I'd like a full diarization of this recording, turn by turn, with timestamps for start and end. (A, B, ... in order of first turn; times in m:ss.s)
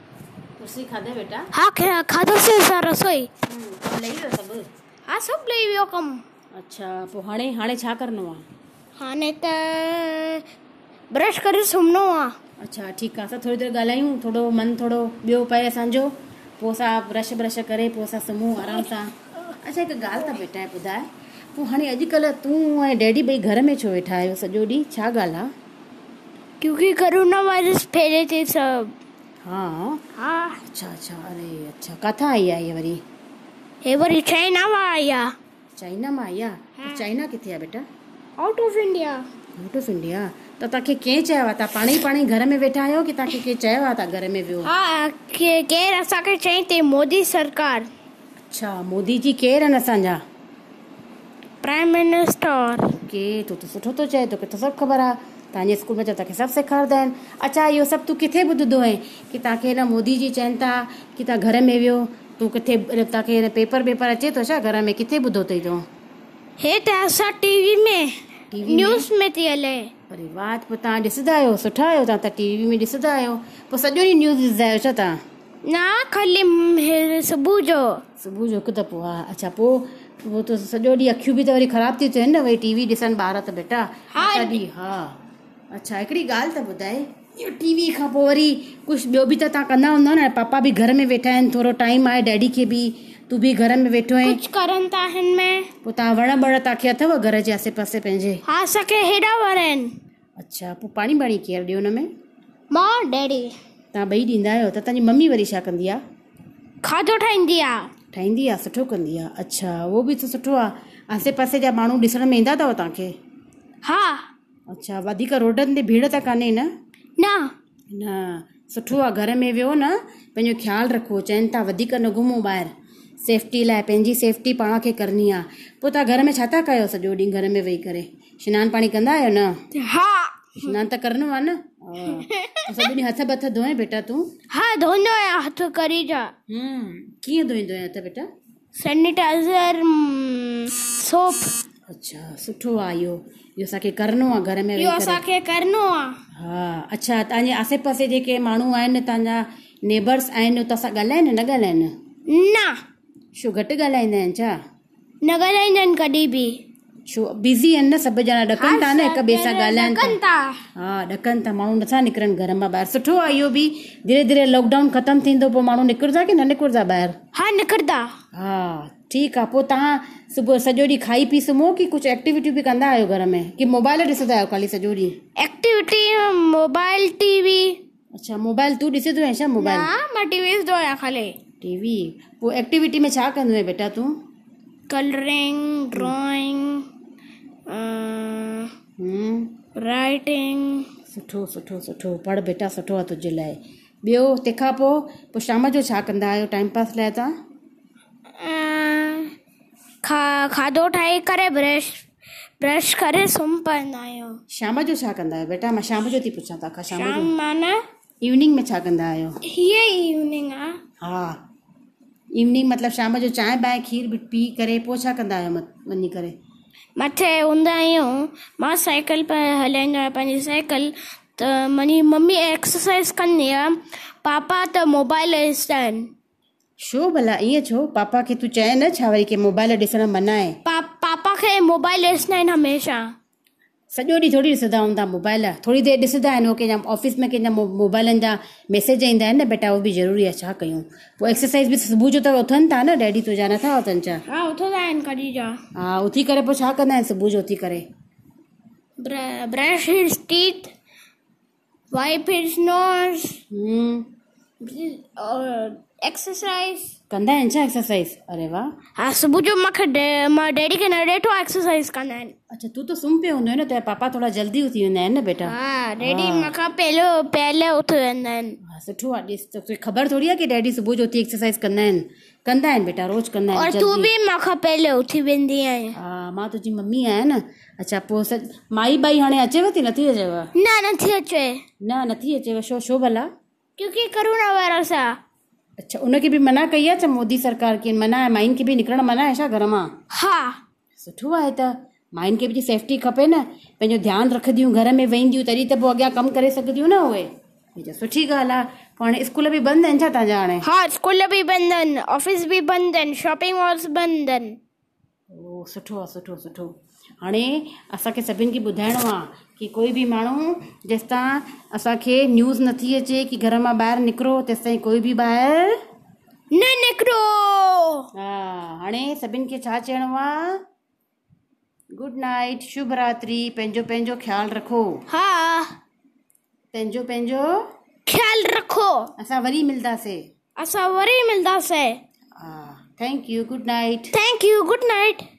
0:00.6-0:01.5 A
0:01.5-0:03.3 B
0:03.5-0:04.7 A
0:05.1-0:06.2 B
0:06.5-0:08.4 A
0:09.0-0:10.4 B
0:11.1-0:12.4 B
0:12.6-0:25.5 A
0:26.6-0:29.0 B
0:29.4-0:30.0 A
0:30.2-0:30.6 B
0:30.6-0:33.0 A
0:33.8-0:35.3 B
0:35.8-0:37.8 A
0:38.4-0:39.3 B
0:39.6-0:44.7 A
0:44.6-0:47.9 B
0:48.5-0:50.2 A
0:51.6-0:53.0 B
0:53.0-1:05.8 A
1:06.6-1:09.9 B
1:08.5-1:09.1 A
1:10.1-1:15.2 A
1:15.6-1:18.0 B
1:18.2-1:25.2 A
1:24.1-1:24.6 B
1:25.7-1:34.4 A
1:34.2-1:35.7 B
1:35.8-1:38.4 A
1:38.5-1:40.0 B
1:40.4-1:42.1 A
1:42.7-1:43.5 B
1:43.9-1:46.0 A
1:46.8-1:47.9 B
1:48.1-1:53.1 A
1:53.8-1:54.3 B
1:54.7-1:56.7 A
1:57.2-1:57.5 B
1:57.9-2:02.7 A
2:03.2-2:09.6 A
2:09.7-2:10.8 B
2:10.6-2:14.3 A
2:12.0-2:12.9 B
2:14.5-2:16.3 B
2:16.5-2:18.3 A
2:18.8-2:21.6 B
2:21.9-2:25.2 A
2:24.8-2:26.2 B
2:26.3-2:31.9 A
2:32.3-2:32.8 B
2:33.4-2:34.6 A
2:35.2-2:36.6 B
2:37.1-2:40.2 A
2:38.6-2:40.6 B
2:40.8-2:47.2 A
2:47.3-2:48.1 B
2:48.3-2:55.2 A
2:55.4-2:57.8 B
2:58.2-2:59.9 A
2:59.6-3:01.4 B
3:01.6-3:04.1 A
3:04.9-3:06.9 B
3:07.7-3:08.7 B
3:09.0-3:09.5 A
3:09.8-3:10.9 B
3:11.1-3:17.3 A
3:18.4-3:19.3 B
3:20.0-3:22.1 B
3:22.6-3:24.4 B
3:24.5-3:27.3 A
3:26.9-3:27.8 B
3:28.2-3:29.4 A
3:29.4-3:30.8 B
3:31.0-3:31.4 A
3:32.4-3:36.4 A
3:37.0-3:46.1 B
3:46.8-3:50.6 A
3:50.6-3:53.1 B
3:53.9-4:04.2 A
4:04.3-4:05.6 B
4:05.8-4:07.8 A
4:09.0-4:10.7 B
4:11.9-4:13.4 B
4:13.5-4:14.1 A
4:14.6-4:16.9 B
4:17.1-4:18.7 A
4:19.0-4:22.4 B
4:22.5-4:26.5 A
4:25.4-4:28.6 B
4:28.6-4:34.1 A
4:33.5-4:36.0 B
4:35.9-4:40.5 A
4:40.5-4:41.6 B
4:41.8-4:43.3 A
4:43.8-4:45.2 B
4:45.8-4:49.9 A
4:50.1-4:50.6 B
4:51.0-5:00.7 A
5:00.6-5:04.6 B
5:05.3-5:15.8 A
5:16.5-5:18.1 B
5:18.1-5:20.6 A
5:21.9-5:25.0 A
5:25.1-5:25.8 B
5:26.7-5:27.6 A
5:28.1-5:29.1 B
5:29.2-5:30.2 A
5:30.6-5:32.0 B
5:32.4-5:34.1 A
5:34.1-5:35.2 B